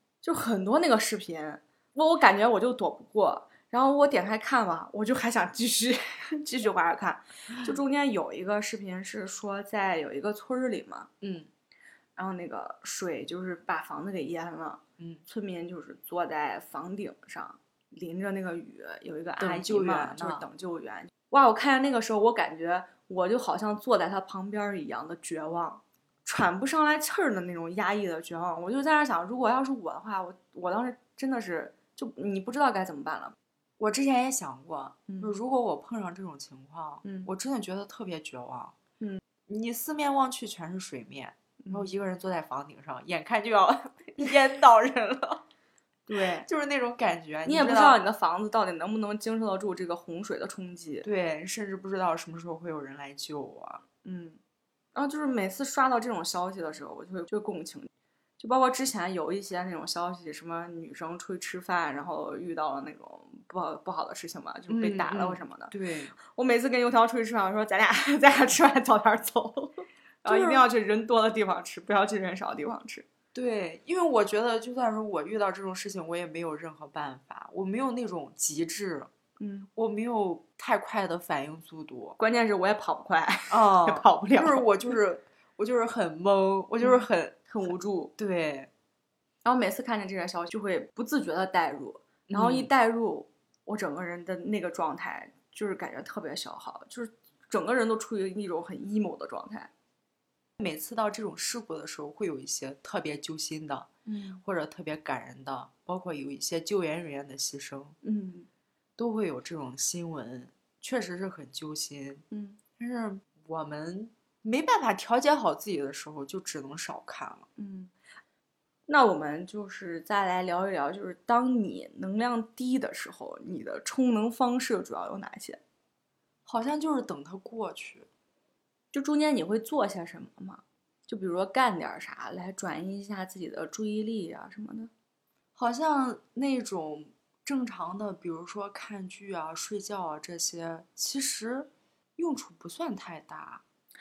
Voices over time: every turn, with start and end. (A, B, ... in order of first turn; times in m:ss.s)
0:00.2-0:11.1 A
0:11.2-0:11.5 B
0:12.2-0:33.4 A
0:19.4-0:20.5 B
0:33.8-0:38.8 B
0:35.1-0:35.3 A
0:37.0-0:37.3 A
0:39.5-0:45.4 B
0:41.6-0:41.9 A
0:46.1-0:46.5 A
0:46.4-0:48.0 B
0:47.4-0:51.1 A
0:51.0-0:53.8 B
0:54.0-0:54.4 A
0:55.0-1:13.1 A
1:04.7-1:06.1 B
1:10.3-1:10.6 B
1:13.3-1:19.1 B
1:19.4-1:19.7 A
1:19.8-1:22.2 B
1:22.2-1:24.7 A
1:23.5-1:27.5 B
1:26.8-1:28.1 A
1:28.2-1:28.7 B
1:29.4-1:39.7 A
1:32.3-1:32.7 B
1:40.6-1:43.9 B
1:44.1-1:44.4 A
1:44.4-1:48.0 B
1:48.0-1:48.5 A
1:49.0-1:52.2 B
1:52.3-1:52.6 A
1:52.8-1:57.5 B
1:57.6-1:57.9 A
1:58.9-2:05.6 A
2:06.5-2:08.1 B
2:08.9-2:14.9 A
2:15.6-2:23.6 B